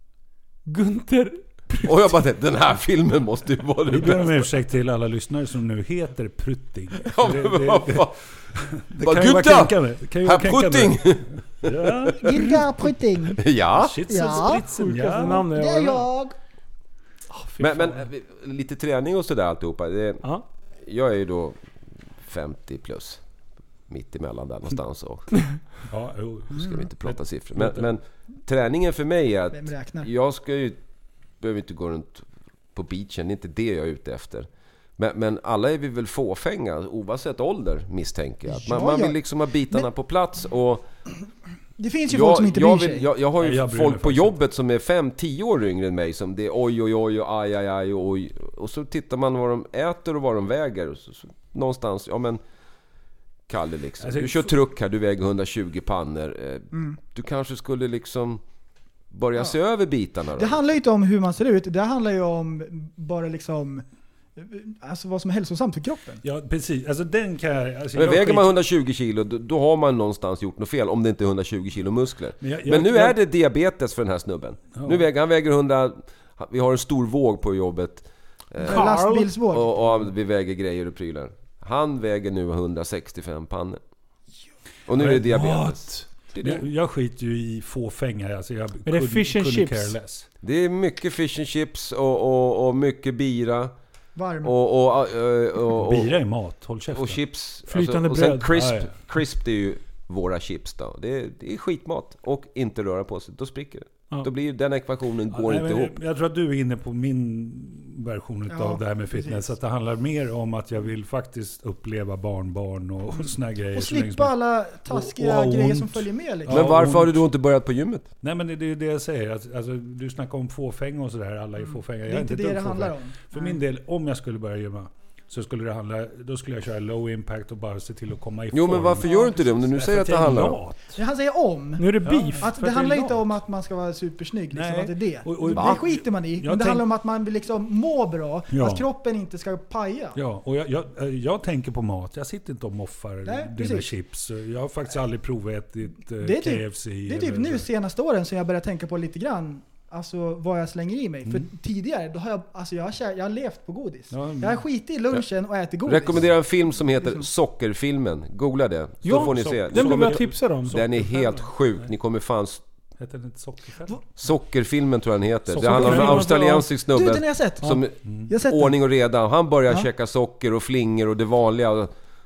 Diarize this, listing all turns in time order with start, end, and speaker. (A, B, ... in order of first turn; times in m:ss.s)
0:00.6-0:02.1 A
0:01.8-0:04.5 B
0:03.9-0:12.7 C
0:07.0-0:08.1 B
0:09.0-0:12.1 B
0:12.2-0:13.4 D
0:13.4-0:14.0 B
0:13.7-0:15.5 C
0:14.0-0:14.6 D
0:14.4-0:16.1 A
0:15.5-0:16.3 D
0:17.3-0:18.0 A
0:17.6-0:20.2 B
0:20.8-0:21.6 B
0:22.2-0:23.2 B
0:23.9-0:25.4 B
0:25.9-0:27.9 C
0:26.5-0:30.8 B
0:29.5-0:30.1 D
0:31.4-0:40.8 B
0:38.5-0:39.2 D
0:41.8-0:43.0 D
0:42.1-0:52.4 B
0:43.4-0:44.4 C
0:53.5-0:58.4 B
0:54.0-0:54.5 C
0:56.7-0:57.0 D
0:59.1-1:00.6 B
1:00.4-1:03.8 D
1:04.4-1:06.2 D
1:06.2-1:08.5 C
1:07.9-1:23.8 B
1:12.4-1:13.2 C
1:14.7-1:15.0 C
1:18.6-1:19.7 D
1:18.6-1:19.3 A
1:24.9-1:26.6 B
1:25.0-1:30.3 C
1:28.8-1:29.9 A
1:30.4-1:33.7 B
1:34.2-1:34.5 D
1:34.4-1:36.1 B
1:35.7-1:37.2 C
1:36.9-1:45.9 B
1:37.7-1:38.5 A
1:38.5-1:39.0 C
1:45.3-1:57.2 C
1:48.5-1:49.5 D
1:53.7-1:56.7 D
1:56.5-1:58.1 B
1:58.2-2:11.0 C
2:01.7-2:03.6 D
2:08.5-2:10.6 B
2:09.0-2:09.3 D
2:10.9-2:20.2 D
2:11.8-2:12.5 A
2:12.0-2:13.4 C
2:14.5-2:16.8 C
2:15.5-2:15.8 B
2:18.5-2:18.8 C
2:20.1-2:27.7 C
2:23.2-2:23.9 D
2:26.2-2:37.2 D
2:34.1-2:34.6 C
2:35.8-2:42.6 B
2:39.0-2:41.9 C
2:39.0-2:40.8 A
2:43.0-2:44.0 C
2:44.2-2:51.9 B
2:45.5-2:46.3 C
2:45.6-2:46.6 A
2:46.0-2:47.7 D
2:48.0-2:48.3 C
2:48.3-2:48.7 D